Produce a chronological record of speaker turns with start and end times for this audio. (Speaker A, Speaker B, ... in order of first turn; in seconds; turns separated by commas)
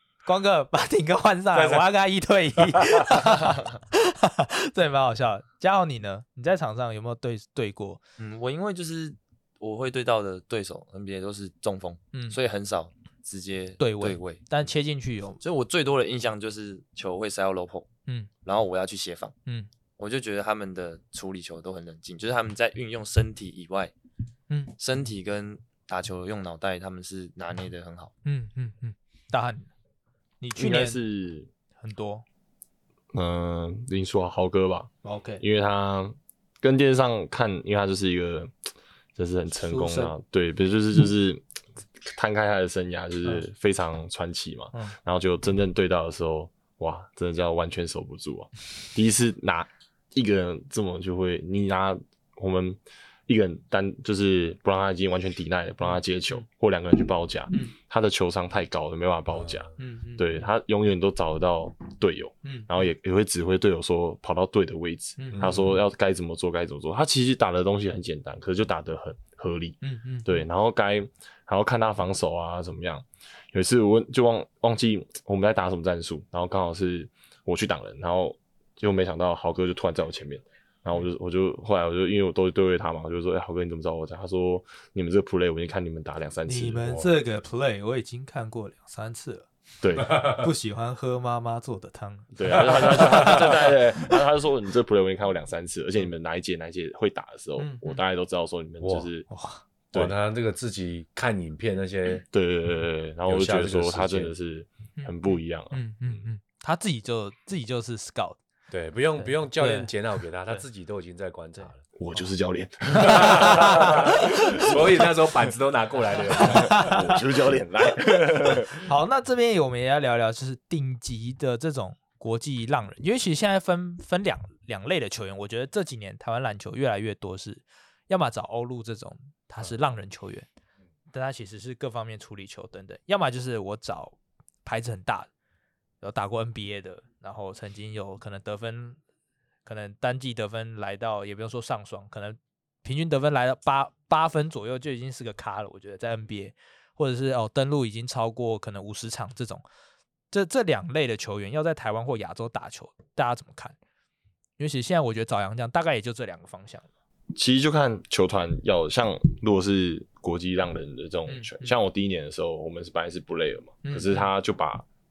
Speaker A: 0.2-8.0, Speaker B: 1.5-1.9, Speaker B: 2.8-3.1, Speaker C: 8.2-14.4, Speaker A: 12.1-12.4, Speaker A: 13.8-15.4, Speaker C: 15.4-17.9, Speaker C: 18.4-19.3, Speaker C: 20.0-23.9, Speaker C: 24.8-28.1, Speaker A: 28.2-29.7, Speaker A: 30.4-31.0, Speaker D: 30.6-31.5, Speaker A: 31.8-32.2, Speaker D: 33.1-41.4, Speaker A: 35.0-35.4, Speaker A: 39.6-40.1, Speaker D: 42.0-87.0, Speaker A: 59.8-60.2, Speaker A: 62.4-62.7, Speaker A: 65.2-65.5, Speaker B: 65.3-65.8, Speaker A: 69.8-70.4, Speaker A: 86.5-89.5, Speaker D: 89.8-90.3, Speaker A: 90.0-93.8, Speaker B: 90.1-90.5, Speaker D: 92.3-99.3, Speaker A: 97.6-98.0, Speaker B: 98.8-99.1, Speaker A: 99.3-99.6, Speaker B: 99.9-102.2, Speaker D: 102.2-105.8, Speaker B: 103.3-104.3, Speaker A: 105.7-108.4, Speaker B: 108.7-111.8, Speaker A: 109.2-109.9, Speaker D: 112.0-115.0, Speaker A: 112.9-114.8, Speaker B: 113.2-117.1, Speaker A: 116.4-117.1, Speaker D: 116.4-118.8, Speaker A: 118.8-130.4, Speaker A: 131.1-135.3, Speaker A: 136.0-139.0, Speaker A: 139.7-149.6, Speaker A: 150.3-153.8, Speaker A: 154.6-156.8, Speaker D: 157.3-164.8, Speaker A: 161.3-161.7, Speaker A: 163.8-164.3